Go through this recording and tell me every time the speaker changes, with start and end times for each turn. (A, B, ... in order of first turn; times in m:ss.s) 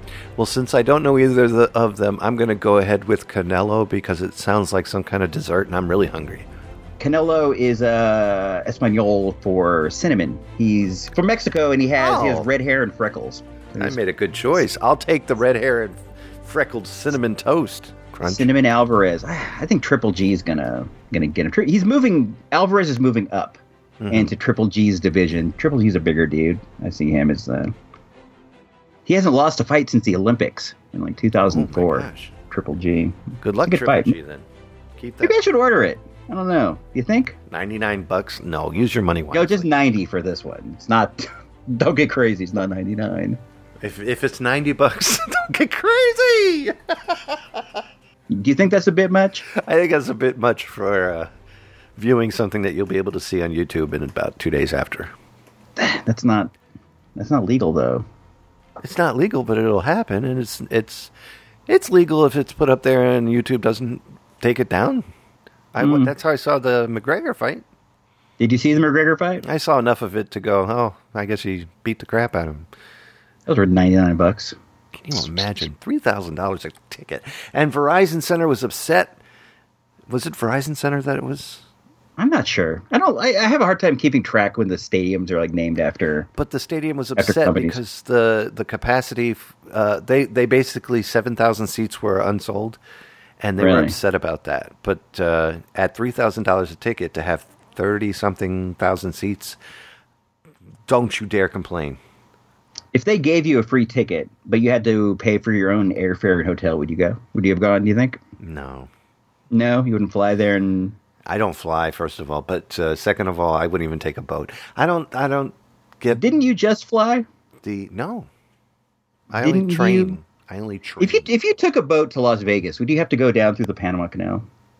0:00.4-0:06.5 A
0:07.0-0:14.0 B
0:12.0-0:12.5 A
0:13.8-0:18.5 A
0:18.2-0:27.7 B
0:24.0-0:24.3 A
0:29.1-0:34.1 B
0:31.5-0:32.3 A
0:33.4-0:34.5 A
0:35.0-0:35.4 A
0:35.2-0:37.4 B
0:37.5-0:39.7 A
0:39.3-0:43.4 B
0:43.8-0:47.8 A
0:48.3-0:49.5 B
0:49.5-0:51.3 A
0:52.0-0:55.1 A
0:55.8-0:56.5 B
0:57.2-0:58.0 B
0:58.8-1:01.1 A
1:01.7-1:05.1 A
1:05.7-1:07.6 A
1:05.8-1:06.1 B
1:08.4-1:09.4 B
1:09.4-1:12.7 A
1:13.5-1:14.6 B
1:15.0-1:19.2 A
1:20.1-1:21.6 A
1:22.2-1:26.3 B
1:26.4-1:32.8 A
1:27.2-1:27.8 B
1:33.4-1:39.6 A
1:33.6-1:34.0 B
1:40.9-1:42.0 A
1:42.9-1:48.2 B
1:48.4-1:48.9 A
1:49.5-1:51.0 B
1:51.2-1:56.2 A
1:56.1-1:57.3 B
1:57.6-1:58.3 A
1:59.3-2:01.3 A
1:59.4-2:00.2 B
2:01.0-2:04.4 B